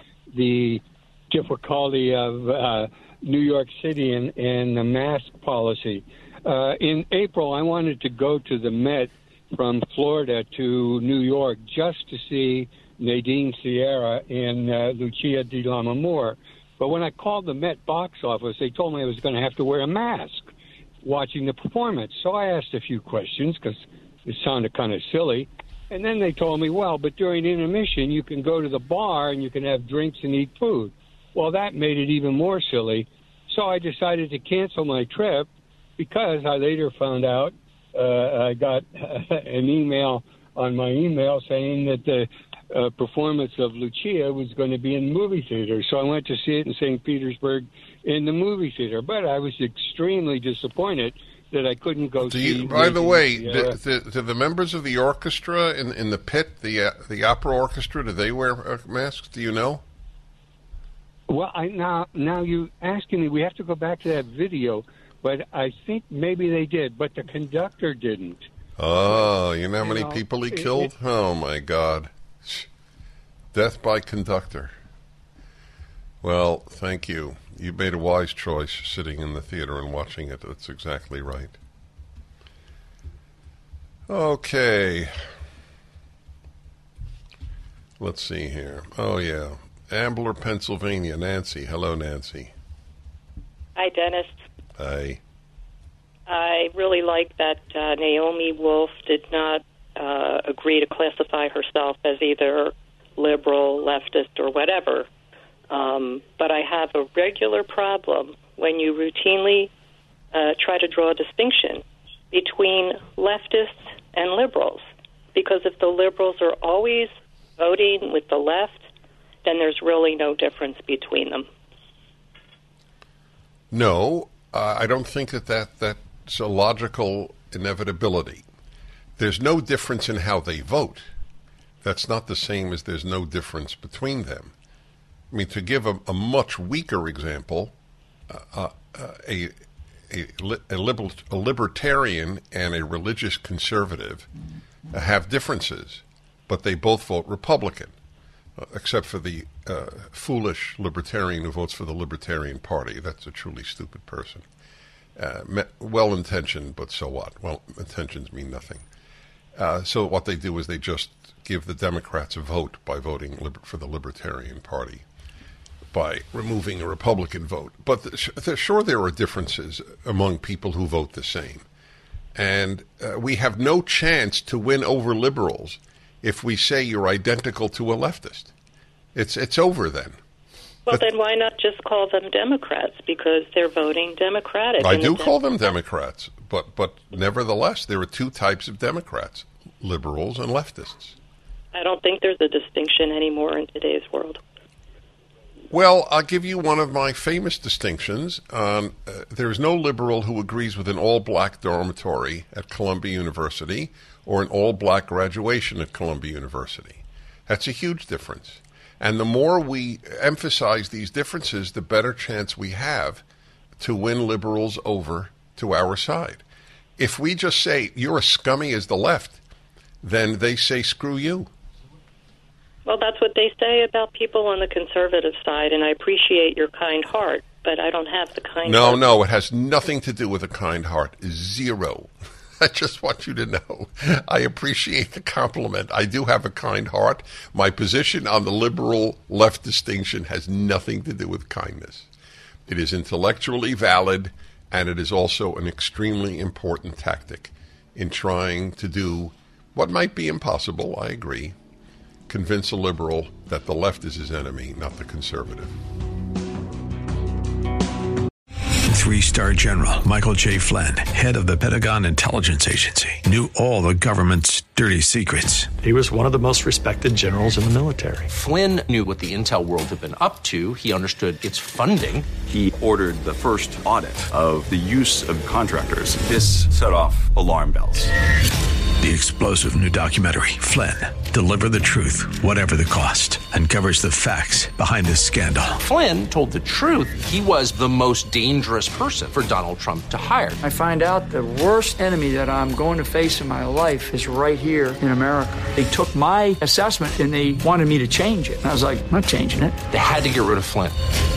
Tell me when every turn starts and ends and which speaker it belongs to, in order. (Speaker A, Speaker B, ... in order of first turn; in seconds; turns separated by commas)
Speaker A: 0.3-20.5, Speaker A: 21.0-53.8, Speaker B: 52.2-59.8, Speaker A: 61.3-68.5, Speaker B: 68.8-72.7, Speaker A: 69.8-70.9, Speaker B: 73.5-74.7, Speaker B: 76.2-81.5, Speaker B: 84.1-85.1, Speaker B: 88.0-92.5, Speaker C: 93.8-94.4, Speaker B: 94.8-95.2, Speaker C: 96.3-105.1, Speaker C: 105.7-109.7, Speaker C: 110.3-118.8, Speaker C: 119.4-121.5, Speaker B: 123.7-128.4, Speaker B: 129.2-131.1, Speaker B: 131.8-134.5, Speaker B: 135.3-137.7, Speaker B: 138.3-139.5, Speaker B: 140.1-144.3, Speaker B: 144.9-147.9, Speaker B: 148.6-154.4, Speaker B: 155.2-158.8, Speaker B: 159.6-165.0, Speaker B: 165.9-171.6, Speaker B: 172.3-178.5, Speaker B: 179.1-180.2, Speaker C: 180.9-185.3, Speaker B: 184.8-191.2, Speaker C: 191.7-194.4, Speaker B: 195.7-213.2, Speaker B: 213.8-216.4, Speaker B: 217.0-219.4, Speaker B: 220.0-221.5, Speaker C: 222.8-229.0, Speaker B: 228.6-242.1, Speaker B: 242.7-251.5, Speaker B: 252.3-255.7, Speaker D: 258.9-265.7, Speaker E: 265.8-268.3, Speaker F: 268.3-272.3, Speaker G: 272.5-278.1, Speaker D: 279.0-285.8, Speaker F: 285.8-290.6, Speaker H: 290.6-299.8, Speaker F: 299.9-301.0